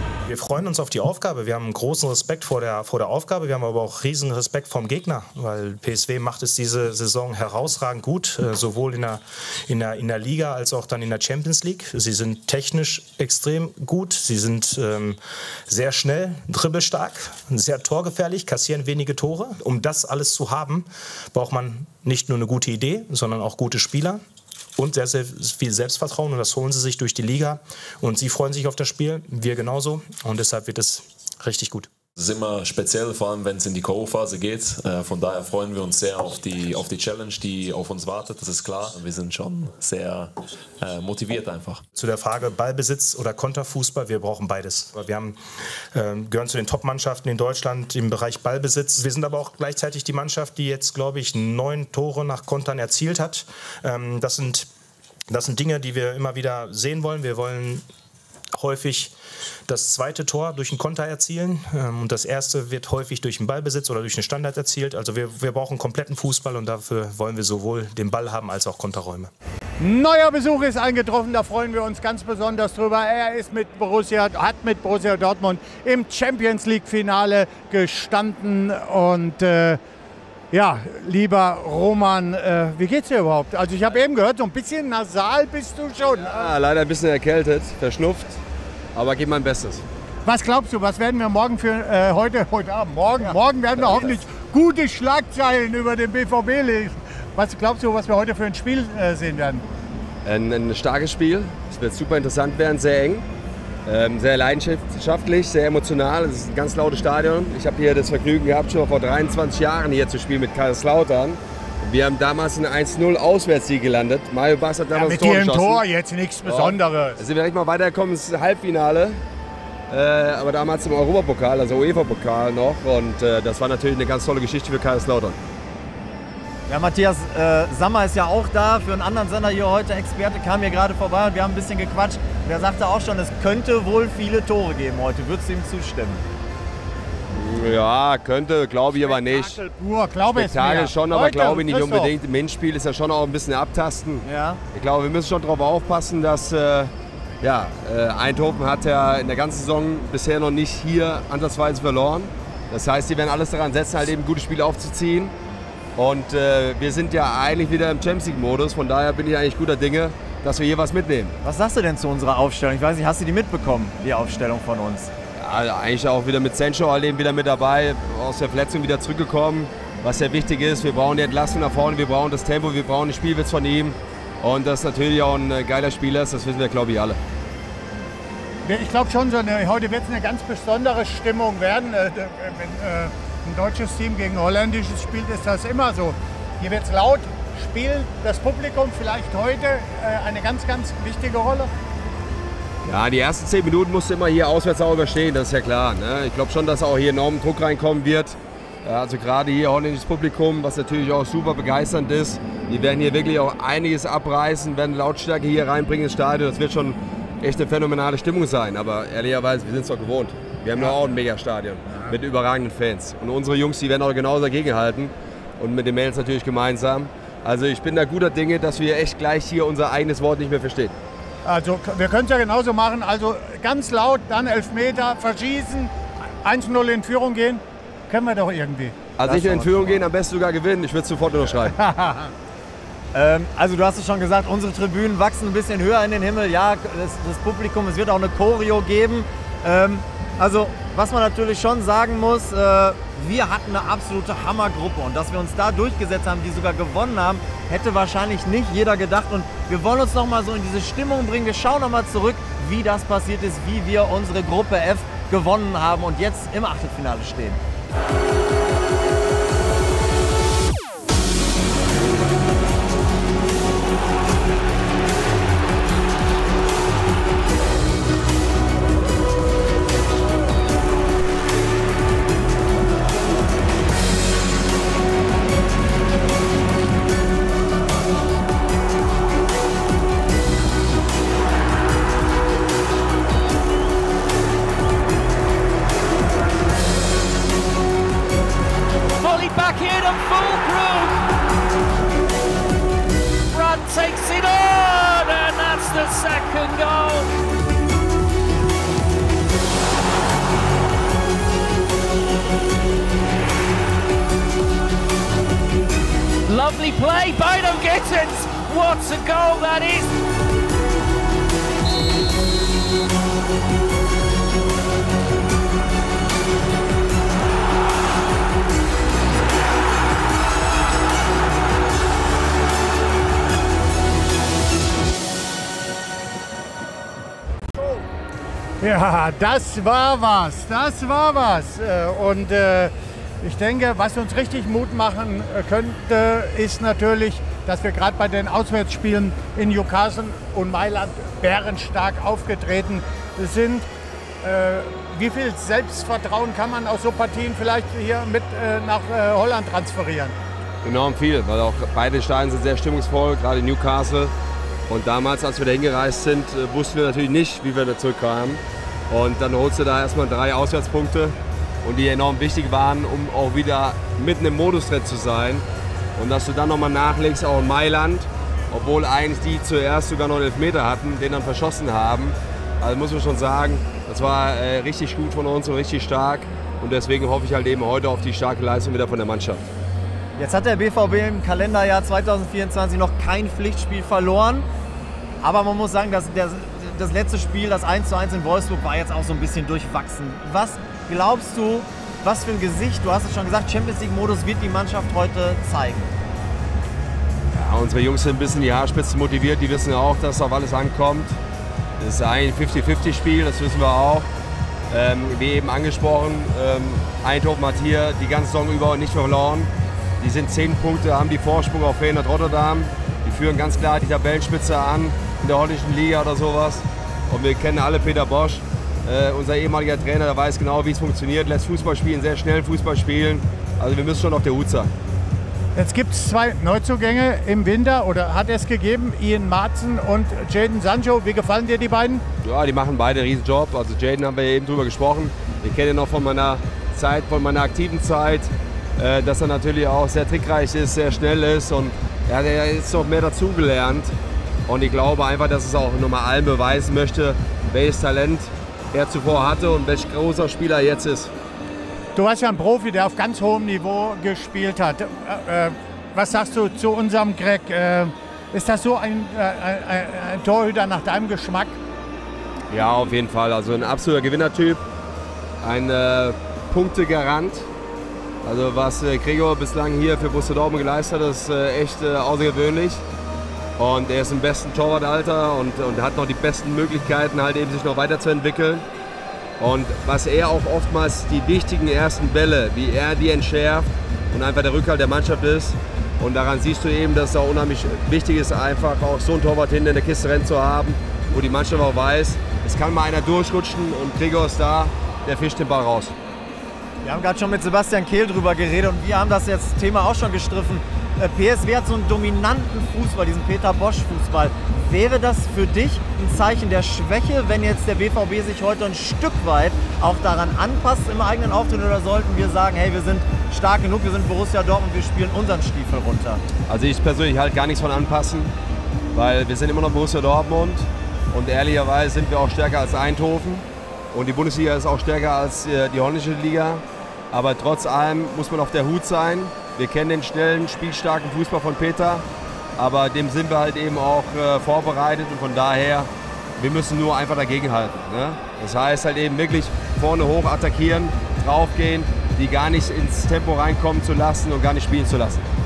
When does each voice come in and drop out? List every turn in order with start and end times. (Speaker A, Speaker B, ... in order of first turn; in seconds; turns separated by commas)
Speaker A: 0.3-24.2, Speaker A: 24.8-31.9, Speaker B: 32.2-41.8, Speaker A: 41.9-45.4, Speaker A: 45.9-54.7, Speaker A: 55.3-57.8, Speaker A: 58.6-59.1, Speaker A: 59.7-69.3, Speaker C: 69.8-79.8, Speaker C: 80.5-86.5, Speaker D: 86.1-88.4, Speaker D: 88.9-89.8, Speaker C: 90.3-99.7, Speaker D: 93.8-94.1, Speaker D: 100.2-103.3, Speaker D: 103.8-115.8, Speaker C: 114.9-117.2, Speaker D: 116.4-119.2, Speaker D: 119.9-125.4, Speaker E: 126.7-136.2, Speaker D: 137.3-139.6, Speaker C: 138.9-142.1, Speaker D: 140.3-155.3, Speaker E: 144.2-144.6, Speaker D: 155.9-161.3, Speaker E: 161.4-165.1, Speaker D: 165.4-177.2, Speaker C: 178.7-191.7, Speaker D: 192.8-220.9, Speaker C: 221.4-229.1, Speaker D: 229.2-231.8, Speaker E: 229.2-230.0, Speaker C: 231.6-232.3, Speaker E: 233.1-257.6, Speaker F: 289.2-291.2, Speaker F: 293.5-297.3, Speaker F: 306.5-310.1, Speaker C: 328.8-343.9, Speaker C: 344.4-350.4, Speaker D: 350.8-354.3, Speaker D: 354.9-365.6, Speaker D: 366.2-379.7, Speaker E: 380.4-384.7, Speaker E: 385.4-396.1, Speaker D: 397.5-401.4, Speaker D: 402.0-404.3, Speaker D: 404.9-424.9, Speaker C: 425.8-432.2, Speaker D: 432.4-444.1, Speaker D: 444.7-451.3, Speaker C: 452.1-461.8, Speaker D: 462.7-464.8, Speaker D: 465.6-467.7, Speaker D: 468.4-473.1, Speaker D: 473.8-478.8, Speaker D: 479.6-496.1, Speaker E: 497.0-516.4, Speaker D: 516.7-518.5, Speaker D: 519.1-532.2, Speaker D: 532.8-545.5